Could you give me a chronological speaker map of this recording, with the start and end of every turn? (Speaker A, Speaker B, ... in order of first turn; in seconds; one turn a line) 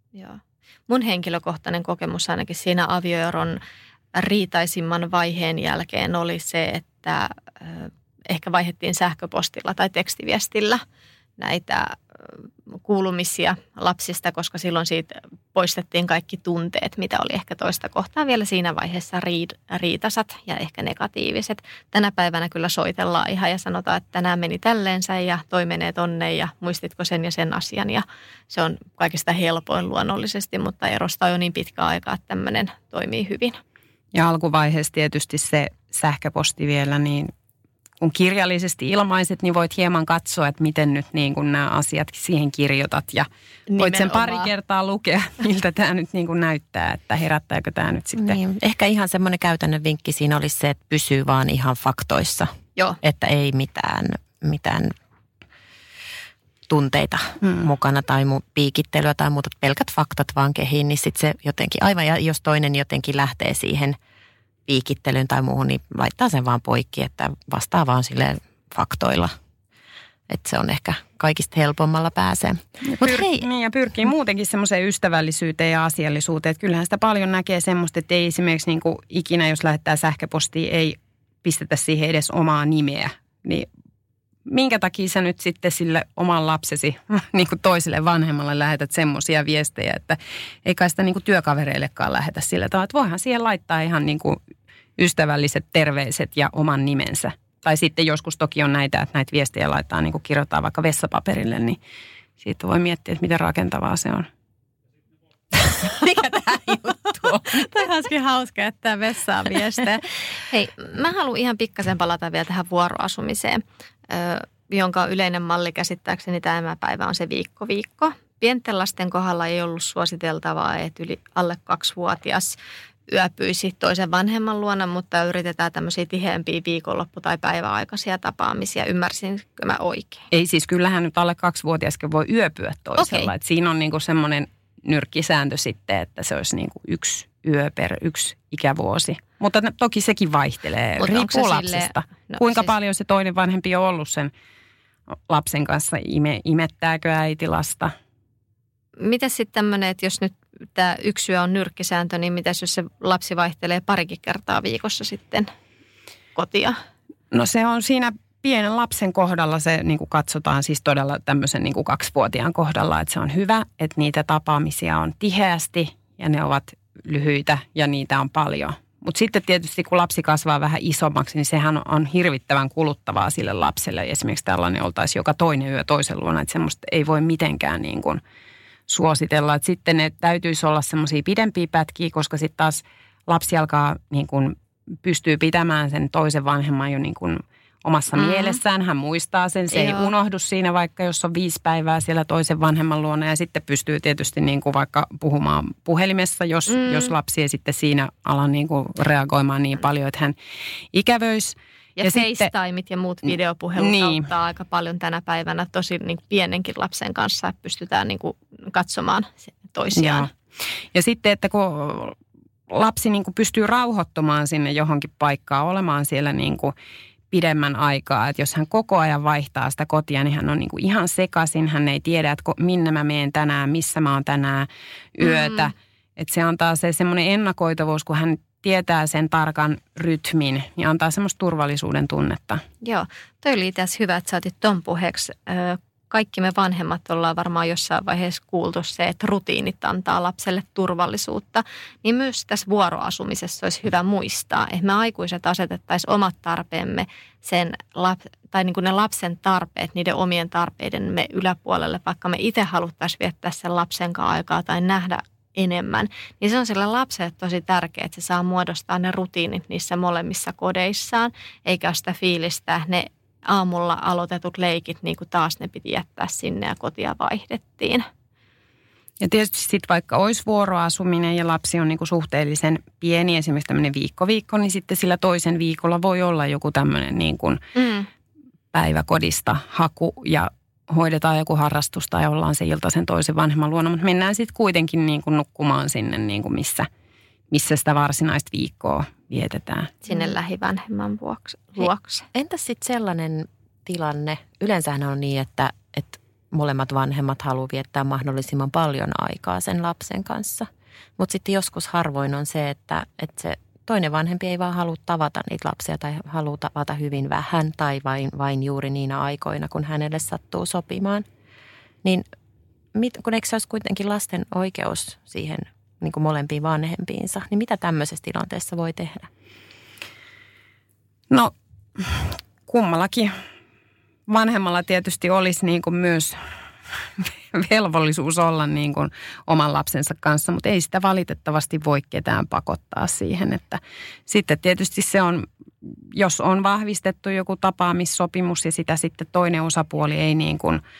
Speaker A: 0.1-3.6
Speaker A: 4.2-10.8
Speaker A: 11.4-33.6
Speaker B: 34.1-37.3
Speaker B: 38.0-48.4
Speaker A: 43.7-44.5
Speaker C: 48.2-52.5
Speaker C: 53.0-54.9
Speaker C: 56.7-64.0
Speaker C: 64.7-69.3
Speaker C: 70.3-73.5
Speaker B: 72.9-83.7
Speaker B: 84.5-94.4
Speaker B: 95.0-101.8
Speaker B: 102.4-104.3
Speaker A: 105.8-122.6
Speaker A: 123.1-130.3
Speaker B: 130.3-144.3
Speaker A: 133.0-133.3
Speaker A: 141.0-142.7
Speaker B: 145.3-147.9
Speaker A: 149.0-155.5
Speaker A: 156.3-156.8
Speaker B: 157.3-178.2
Speaker B: 178.9-200.3
Speaker A: 188.1-188.6
Speaker A: 189.7-190.1
Speaker A: 196.7-197.1
Speaker B: 200.9-202.5
Speaker A: 202.0-210.3
Speaker B: 203.8-204.3
Speaker B: 209.9-210.3
Speaker B: 210.9-212.2
Speaker B: 212.7-216.7
Speaker B: 217.3-232.6
Speaker A: 225.2-225.7
Speaker A: 232.8-268.1
Speaker B: 269.2-277.6
Speaker A: 277.8-278.1
Speaker B: 278.7-286.9
Speaker B: 287.5-289.9
Speaker A: 290.1-292.3
Speaker C: 292.3-311.3
Speaker C: 312.9-319.3
Speaker B: 321.3-323.4
Speaker B: 324.3-326.4
Speaker B: 327.2-335.5
Speaker B: 336.1-340.8